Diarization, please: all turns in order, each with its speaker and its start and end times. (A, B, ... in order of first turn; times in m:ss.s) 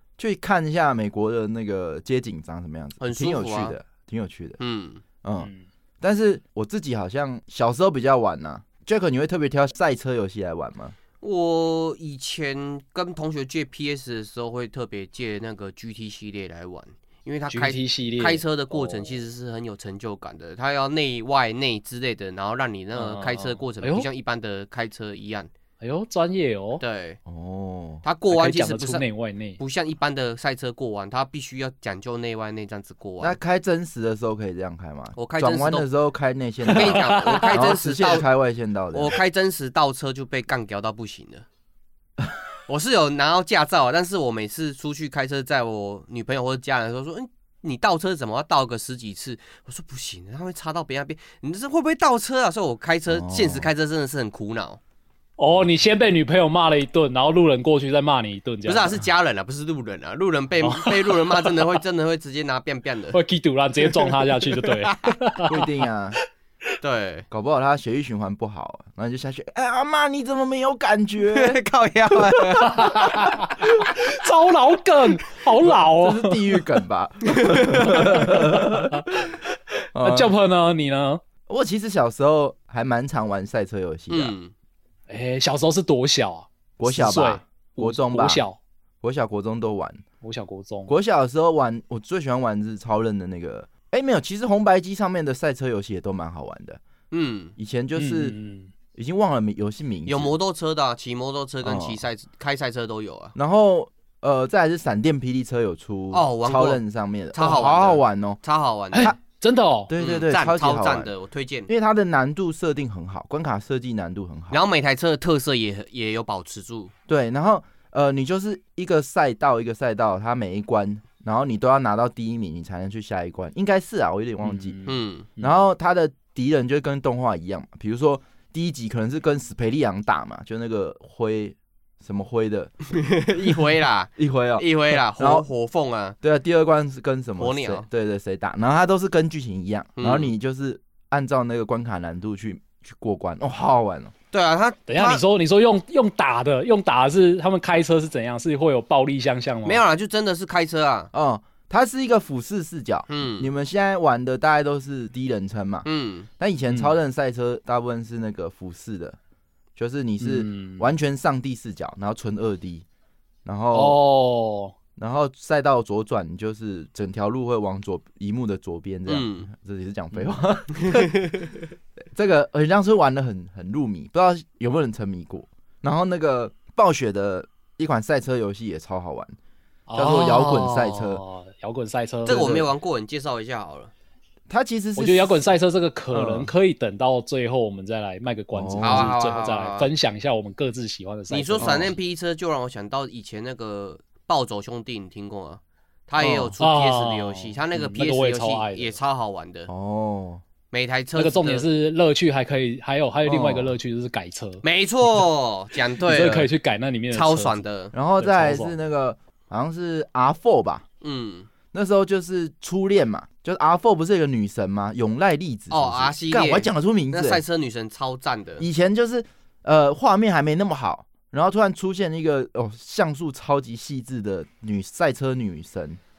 0:00.2-0:04.6 A
0:03.0-0:03.8 B
0:04.6-0:05.0 B
0:05.2-0:11.0 A
0:05.4-0:05.7 C
0:11.2-0:25.5 B
0:17.5-0:19.2 C
0:23.0-0:24.1 C
0:25.8-0:26.8 C
0:26.8-0:27.2 B
0:27.3-0:28.0 A
0:28.0-0:29.1 B
0:28.3-0:29.6 C
0:29.6-0:33.4 B
0:33.2-0:39.2 A
0:35.2-0:35.9 B
0:36.6-0:37.6 C
0:36.7-0:38.3 B
0:38.9-0:41.5 B
0:42.7-0:54.8 B
0:53.1-0:53.7 A
0:55.4-0:59.0 C
0:58.7-1:03.2 B
1:00.6-1:01.6 C
1:03.1-1:05.8 C
1:03.9-1:05.2 B
1:05.4-1:06.2 A
1:06.8-1:07.3 B
1:07.3-1:11.6 A
1:11.3-1:13.5 B
1:12.6-1:16.6 C
1:15.6-1:19.1 A
1:17.3-1:18.1 B
1:17.8-1:21.2 C
1:19.9-1:20.3 A
1:21.5-1:24.4 A
1:24.1-1:24.5 B
1:25.1-1:28.6 C
1:26.8-1:28.4 A
1:29.0-1:30.0 A
1:30.2-1:30.9 C
1:30.9-1:36.8 A
1:37.1-1:37.5 B
1:37.6-1:38.4 A
1:38.0-1:38.7 C
1:39.0-1:40.4 A
1:40.1-1:43.4 B
1:41.6-1:42.0 A
1:43.4-1:48.4 A
1:46.1-1:46.8 B
1:47.3-1:49.1 B
1:48.9-1:49.9 C
1:49.9-1:51.1 A
1:50.0-1:51.7 B
1:51.7-1:54.6 A
1:54.5-1:56.9 B
1:57.1-2:04.8 A
2:04.4-2:05.6 C
2:04.9-2:05.3 B
2:05.4-2:12.7 A
2:12.9-2:16.2 B
2:14.2-2:15.5 A
2:16.2-2:24.1 A
2:17.4-2:17.9 B
2:20.0-2:20.3 B
2:24.3-2:25.2 B
2:24.9-2:29.8 C
2:29.6-2:31.1 B
2:31.1-2:35.9 A
2:33.1-2:33.5 B
2:35.8-2:36.3 B
2:36.4-2:39.2 A
2:36.7-2:36.9 C
2:39.8-2:42.8 A
2:40.2-2:40.9 C
2:43.4-2:44.0 A
2:43.7-2:44.7 C
2:45.0-2:51.3 A
2:49.1-2:49.5 B
2:50.8-2:51.5 B
2:52.1-2:59.4 A
2:59.9-3:02.6 C
3:00.0-3:01.2 A
3:00.3-3:01.0 B
3:02.3-3:02.7 A
3:02.3-3:03.9 B
3:04.5-3:05.5 A
3:05.0-3:11.9 C
3:06.1-3:06.5 A
3:08.5-3:09.1 A
3:08.8-3:09.9 B
3:11.3-3:19.7 B
3:11.6-3:11.9 A
3:16.2-3:16.6 A
3:16.6-3:19.0 C
3:19.7-3:20.4 A
3:20.7-3:21.7 B
3:21.2-3:24.6 C
3:23.2-3:23.8 A
3:24.6-3:26.5 B
3:26.0-3:27.6 C
3:27.1-3:27.9 B
3:27.9-3:30.8 A
3:28.2-3:28.8 C
3:31.0-3:31.5 B
3:31.7-3:37.4 A
3:35.7-3:38.7 B
3:38.6-3:46.0 A